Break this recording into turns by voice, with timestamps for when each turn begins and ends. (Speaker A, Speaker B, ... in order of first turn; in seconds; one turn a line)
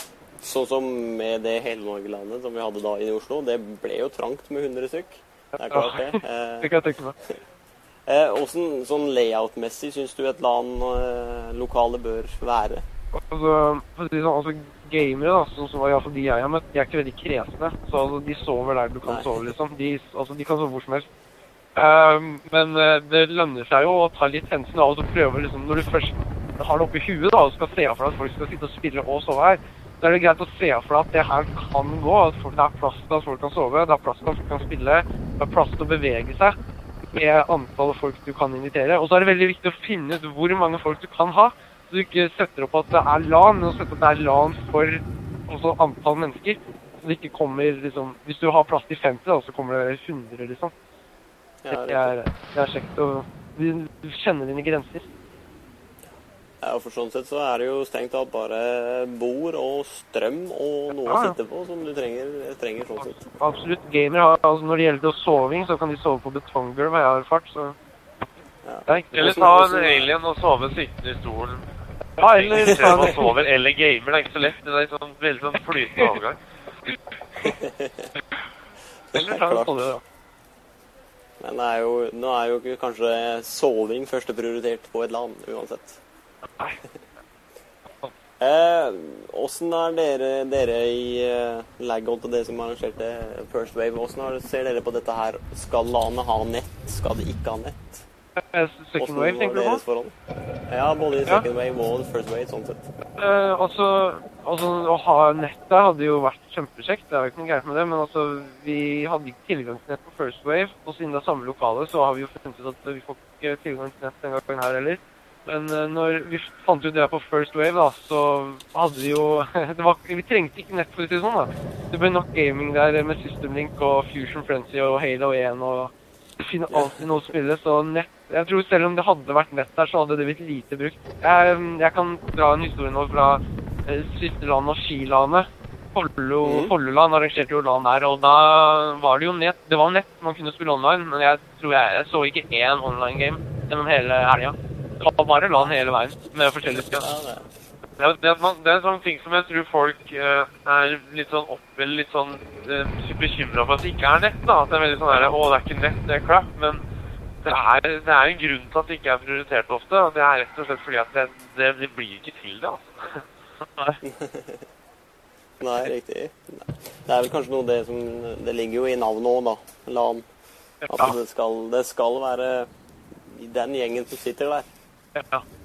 Speaker A: 0.4-6.7
Speaker B: 5.6-7.2
Speaker A: 8.1-12.8
Speaker B: 13.1-21.1
Speaker A: 19.1-19.4
Speaker B: 21.8-36.6
Speaker B: 37.1-50.7
Speaker A: 51.6-52.1
Speaker B: 51.7-55.1
Speaker A: 56.6-63.2
Speaker B: 61.0-61.4
Speaker B: 63.0-67.8
Speaker A: 68.6-70.1
Speaker B: 68.9-69.5
Speaker C: 69.2-71.7
Speaker B: 72.2-73.3
Speaker C: 72.3-76.4
Speaker A: 72.6-72.9
Speaker A: 77.4-78.1
Speaker A: 79.1-79.7
Speaker B: 79.1-80.0
Speaker A: 81.4-86.0
Speaker A: 88.4-98.1
Speaker B: 98.4-99.8
Speaker A: 99.0-100.1
Speaker A: 100.7-102.9
Speaker B: 103.2-147.1
Speaker A: 126.7-127.0
Speaker A: 136.4-136.7
Speaker A: 146.7-147.5
Speaker C: 148.0-156.8
Speaker C: 157.4-163.2
Speaker A: 164.0-164.6
Speaker A: 165.6-170.2
Speaker B: 170.8-171.2
Speaker A: 170.9-172.7
Speaker A: 173.2-174.7
Speaker B: 175.2-175.4